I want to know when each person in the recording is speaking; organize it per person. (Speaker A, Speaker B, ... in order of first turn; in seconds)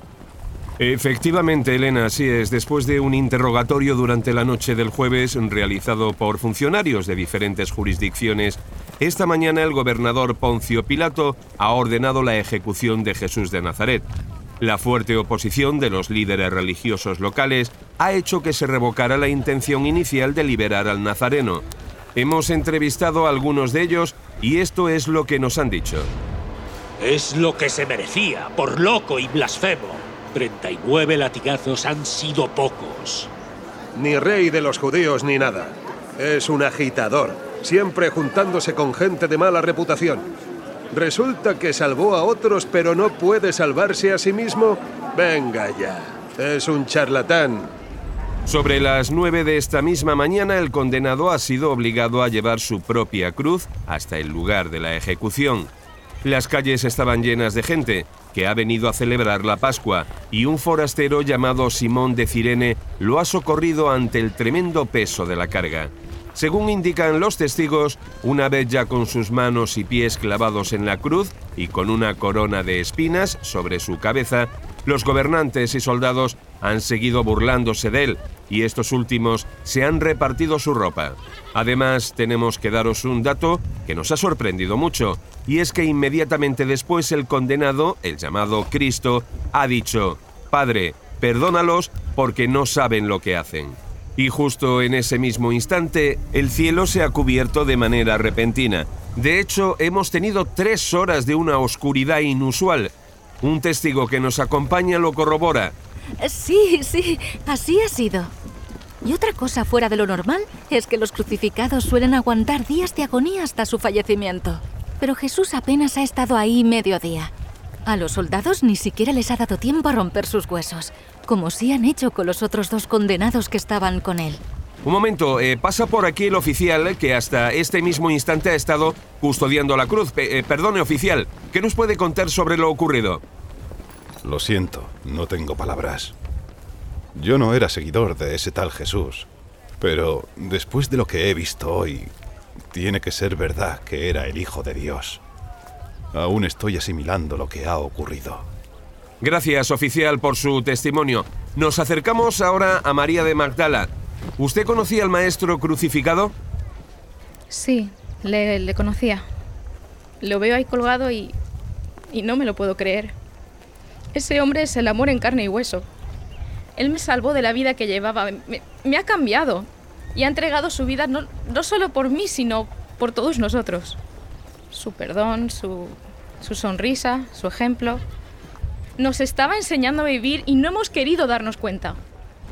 Speaker A: 0.8-14.1, 14.6-21.6, 22.2-26.1, 48.5-55.7, 56.2-105.8, 124.8-133.2, 149.2-156.3
Speaker B: 27.0-33.3
Speaker C: 34.0-40.3, 40.9-47.7
Speaker D: 106.2-108.3, 109.0-117.3, 117.9-124.4
Speaker E: 134.2-136.1, 137.2-139.3, 139.8-142.1, 142.7-145.2, 146.1-148.5
Speaker F: 157.5-159.2, 160.2-161.3, 162.1-163.2, 164.1-165.9, 166.8-174.0, 174.7-178.0, 179.0-182.0